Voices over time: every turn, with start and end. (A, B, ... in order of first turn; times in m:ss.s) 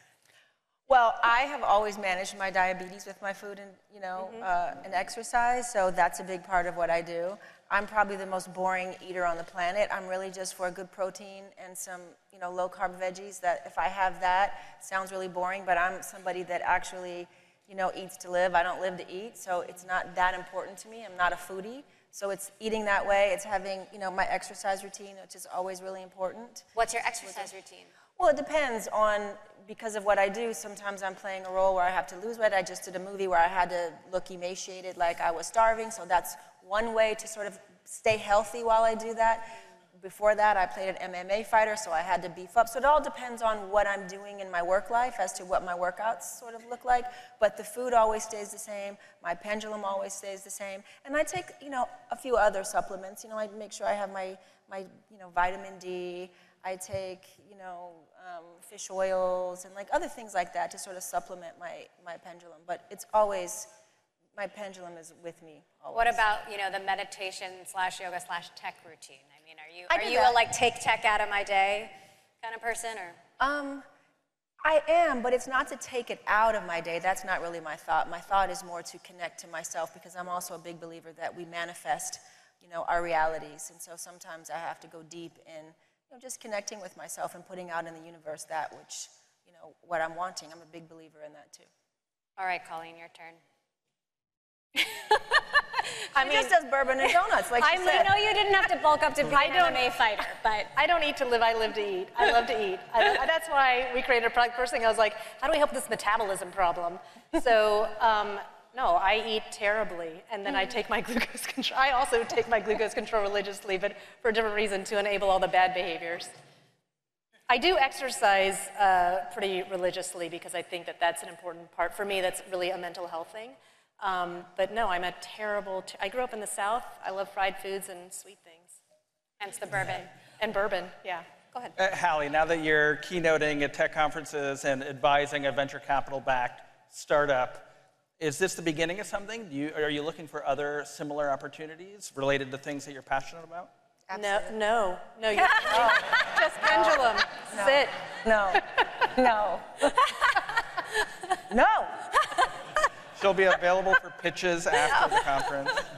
0:00.9-0:26.7 A
0:26.8-0:27.9 B
0:27.2-0:27.5 A
0:28.2-1:03.7 A
1:04.4-1:06.2 A
1:05.9-1:13.2 B
1:09.9-1:10.4 A
1:13.4-1:13.9 A
1:14.6-1:31.7 A
1:32.4-1:33.4 B
1:34.8-1:36.5 B
1:36.2-1:38.1 A
1:37.6-1:40.7 B
1:39.3-1:39.8 C
1:40.7-1:56.3 C
1:57.5-2:08.8 C
2:09.4-2:10.1 B
2:10.3-2:11.3 C
2:11.8-2:17.7 D
2:18.2-2:23.7 D
2:24.1-2:24.6 A
2:24.1-2:28.0 C
2:25.4-2:26.2 B
2:25.7-2:30.1 A
2:31.5-2:32.2 A
2:33.2-2:35.9 D